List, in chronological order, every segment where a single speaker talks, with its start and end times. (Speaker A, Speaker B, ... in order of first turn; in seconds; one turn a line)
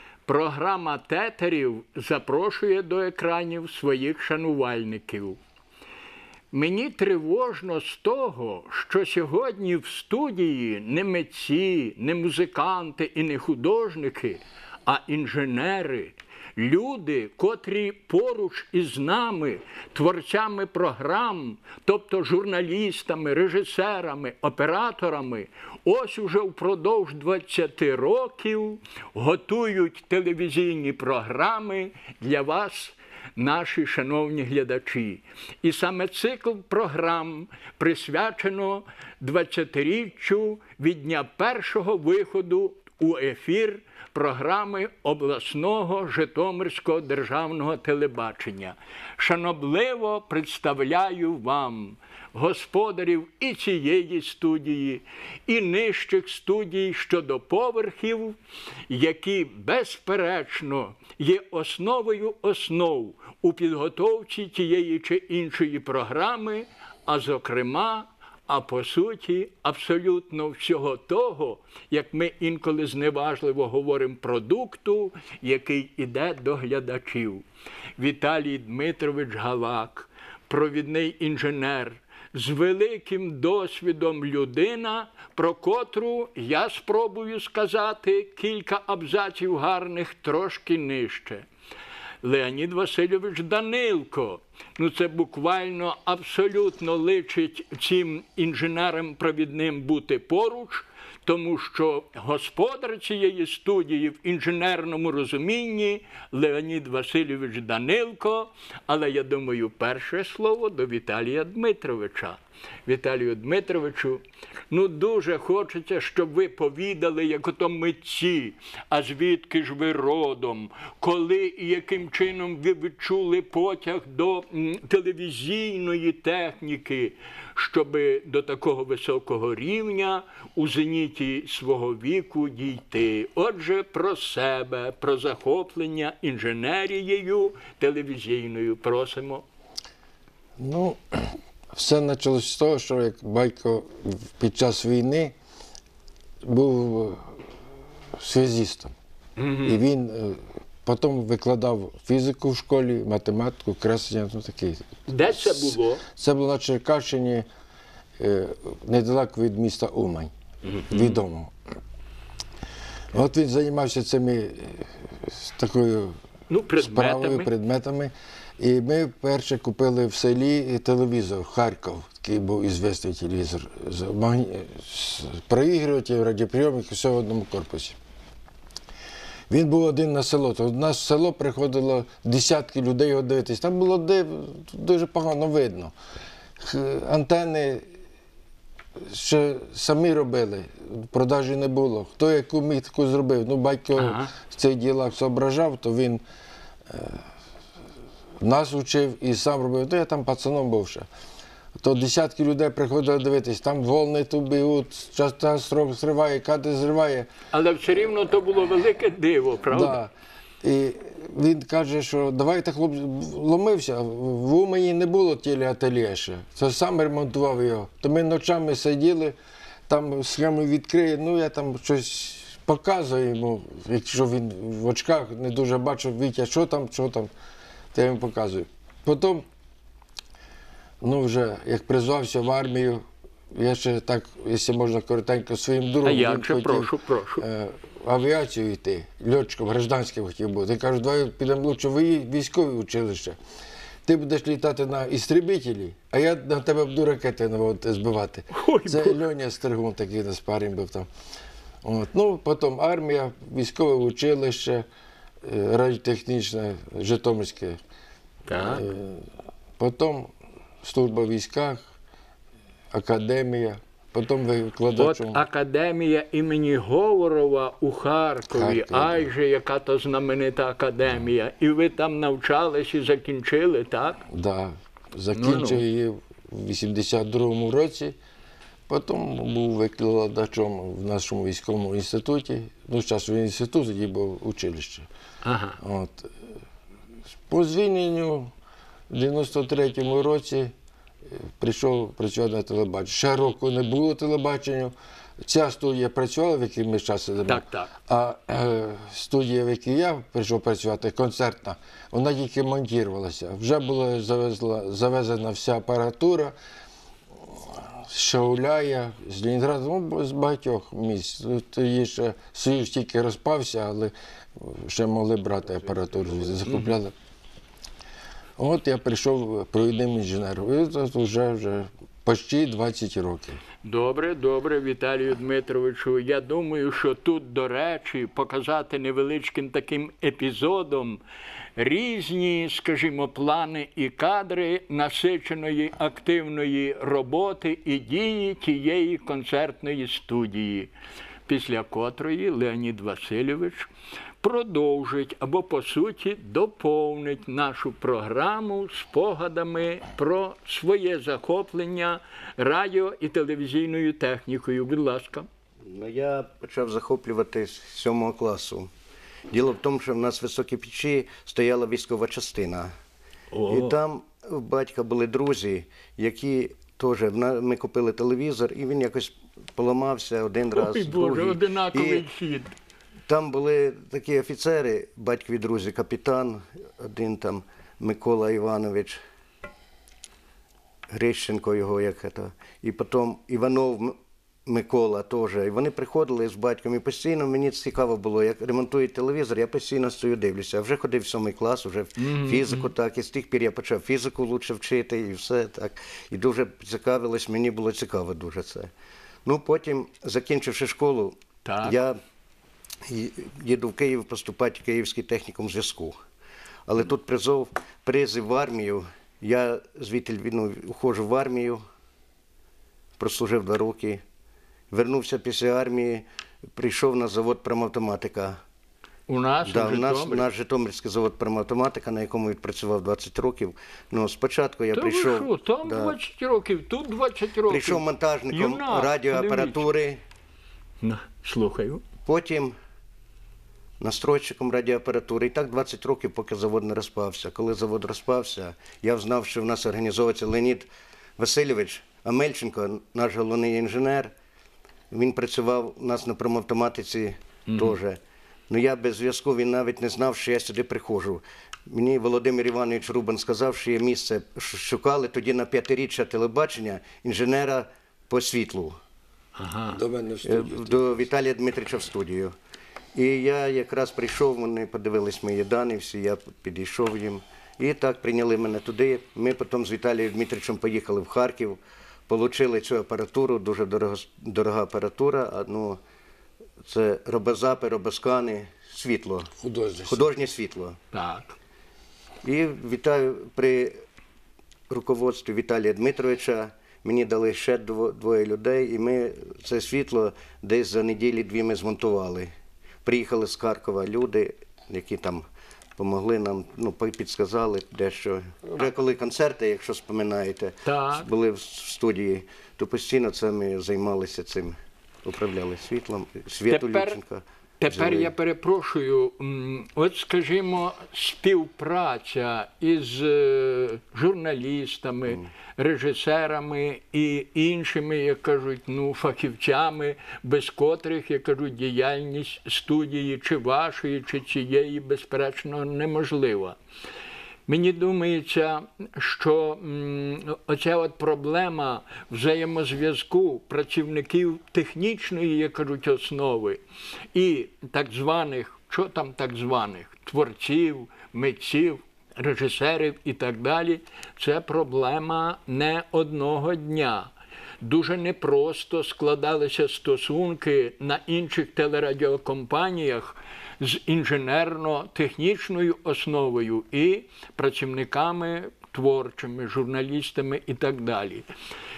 Speaker A: 0.3-5.4
Speaker A: 6.5-58.4
Speaker A: 58.9-77.4
Speaker A: 78.0-91.5
Speaker A: 92.2-139.4
Speaker B: 140.6-145.3
Speaker B: 146.4-147.4
Speaker B: 148.2-148.9
Speaker A: 149.4-149.8
Speaker B: 149.6-157.5
Speaker A: 155.1-156.0
Speaker B: 158.2-160.3
Speaker A: 160.7-161.2
Speaker B: 160.9-161.5
Speaker B: 163.1-166.2
Speaker A: 166.5-167.5
Speaker B: 166.8-178.0
Speaker B: 179.5-185.9
Speaker B: 186.6-187.8
Speaker B: 189.0-196.2
Speaker A: 194.0-194.3
Speaker B: 196.9-197.2
Speaker B: 198.4-201.1
Speaker B: 201.8-207.3
Speaker A: 207.5-210.0
Speaker B: 209.7-210.1
Speaker B: 210.6-219.3
Speaker B: 219.9-227.3
Speaker B: 227.9-229.4
Speaker B: 231.0-243.4
Speaker A: 236.0-237.4
Speaker B: 244.1-251.1
Speaker A: 248.5-249.2
Speaker B: 251.8-254.8
Speaker B: 255.4-257.8
Speaker A: 258.5-258.8
Speaker B: 258.6-259.3
Speaker B: 259.8-261.8
Speaker B: 262.9-265.4
Speaker A: 264.9-274.2
Speaker B: 268.5-269.3
Speaker B: 274.3-278.1
Speaker A: 275.3-275.8
Speaker B: 278.9-285.1
Speaker A: 285.4-285.8
Speaker B: 285.8-286.3
Speaker B: 287.5-288.5
Speaker B: 289.1-290.7
Speaker B: 291.4-294.9
Speaker B: 295.4-306.6
Speaker A: 297.5-297.9
Speaker B: 307.4-317.1
Speaker A: 316.7-316.9
Speaker B: 318.6-323.6
Speaker A: 323.8-331.2
Speaker A: 331.8-340.9
Speaker A: 341.5-343.9
Speaker A: 344.4-355.5
Speaker C: 355.9-358.9
Speaker C: 359.5-362.9
Speaker A: 363.5-364.0
Speaker C: 363.7-372.3
Speaker A: 370.7-372.7
Speaker C: 373.3-379.2
Speaker C: 381.1-398.9
Speaker A: 392.2-392.9
Speaker C: 399.4-402.2
Speaker A: 401.6-402.0
Speaker C: 403.1-406.2
Speaker C: 406.9-411.8
Speaker C: 413.2-414.2
Speaker C: 414.9-418.6
Speaker A: 419.3-420.5
Speaker C: 419.6-426.2
Speaker A: 424.9-429.9
Speaker C: 427.7-430.2
Speaker A: 431.0-432.0
Speaker C: 432.3-432.7
Speaker C: 434.0-440.9
Speaker C: 441.4-444.3
Speaker C: 445.1-459.0
Speaker A: 447.7-448.0
Speaker A: 459.6-460.0
Speaker B: 459.9-461.1
Speaker C: 460.4-462.5
Speaker C: 463.1-471.8
Speaker C: 472.3-476.0
Speaker C: 476.8-479.5
Speaker B: 479.6-480.3
Speaker C: 480.1-481.0
Speaker A: 481.1-481.6
Speaker C: 482.4-483.9
Speaker C: 484.9-492.5
Speaker C: 493.1-495.4
Speaker C: 496.0-508.3
Speaker A: 500.9-501.3
Speaker A: 506.7-507.2
Speaker A: 507.8-526.8
Speaker A: 527.7-536.8
Speaker A: 537.3-547.3
Speaker A: 547.8-561.5